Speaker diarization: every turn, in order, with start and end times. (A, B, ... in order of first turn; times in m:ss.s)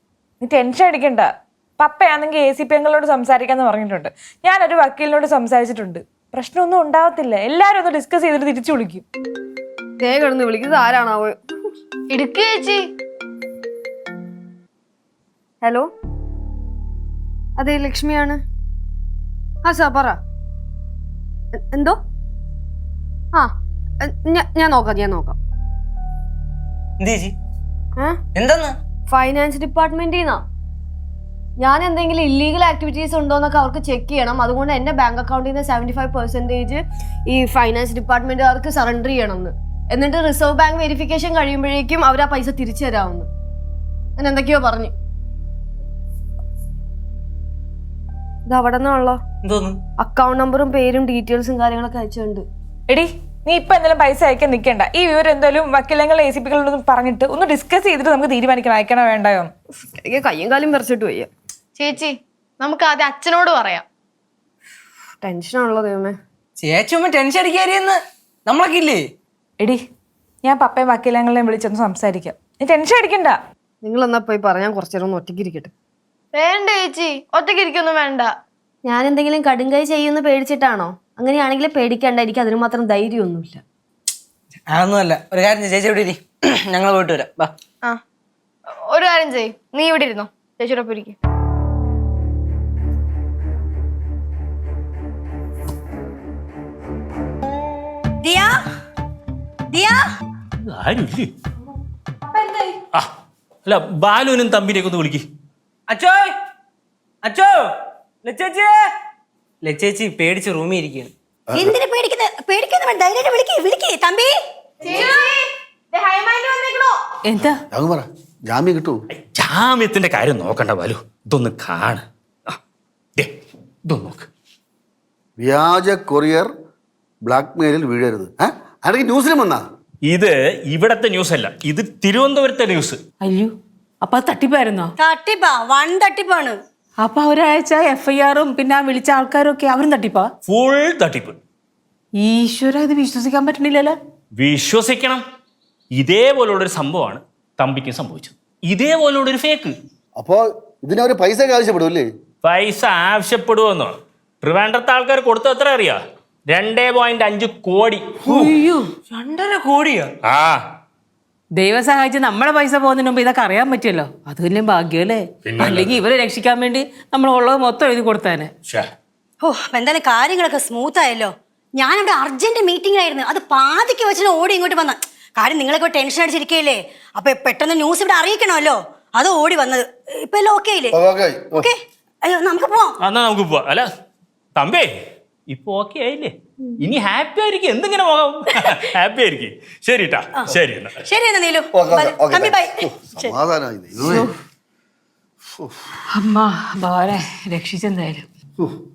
0:00.4-0:09.0 A
0:10.0-0:11.4 B
0:12.1-0:12.9 C
0:15.6-0:15.9 B
0:17.6-0:18.4 B
0:19.6-0:20.2 B
0:21.7-0:22.0 B
0:24.0-0:25.4 B
0:27.0-0:27.3 D
0:28.3-0:28.8 D
0:29.1-0:30.4 B
0:31.6-0:43.3 B
0:44.2-0:44.9 B
0:48.5-0:49.2 B
0:49.4-0:49.8 D
0:50.0-0:52.4 B
0:52.9-0:59.5 A
1:00.0-1:01.3 B
1:01.8-1:03.8 C
1:05.2-1:06.2 B
1:06.6-1:09.0 D
1:10.4-1:13.4 A
1:13.8-1:15.7 B
1:16.3-1:18.4 C
1:18.8-1:23.6 B
1:24.7-1:27.5 D
1:28.8-1:31.1 C
1:38.2-1:38.5 E
1:39.7-1:40.0 E
1:40.6-1:41.3 F
1:43.6-1:45.2 F
1:45.9-1:46.3 D
1:47.2-1:47.6 D
1:48.2-1:48.8 D
1:49.6-1:51.1 D
1:51.5-1:51.8 G
1:51.5-1:54.3 E
1:54.8-1:57.0 C
1:57.2-1:57.6 H
1:57.7-1:59.0 G
1:59.1-2:02.6 F
2:03.9-2:04.3 F
2:05.4-2:06.5 G
2:07.2-2:09.6 G
2:10.0-2:13.0 F
2:13.2-2:14.9 H
2:15.0-2:16.6 E
2:17.0-2:20.3 H
2:20.5-2:21.4 F
2:22.2-2:24.0 H
2:24.4-2:25.2 F
2:26.0-2:29.7 F
2:30.2-2:32.1 G
2:32.4-2:38.5 F
2:38.3-2:38.9 H
2:39.1-2:40.1 D
2:40.2-2:40.6 F
2:41.6-2:48.5 H
2:45.5-2:46.0 F
2:49.4-3:00.9 E
3:00.9-3:01.7 G
3:01.6-3:02.9 E
3:03.0-3:03.8 F
3:04.6-3:04.9 F
3:05.5-3:11.0 F
3:11.0-3:13.2 E
3:11.7-3:14.3 G
3:16.2-3:18.2 H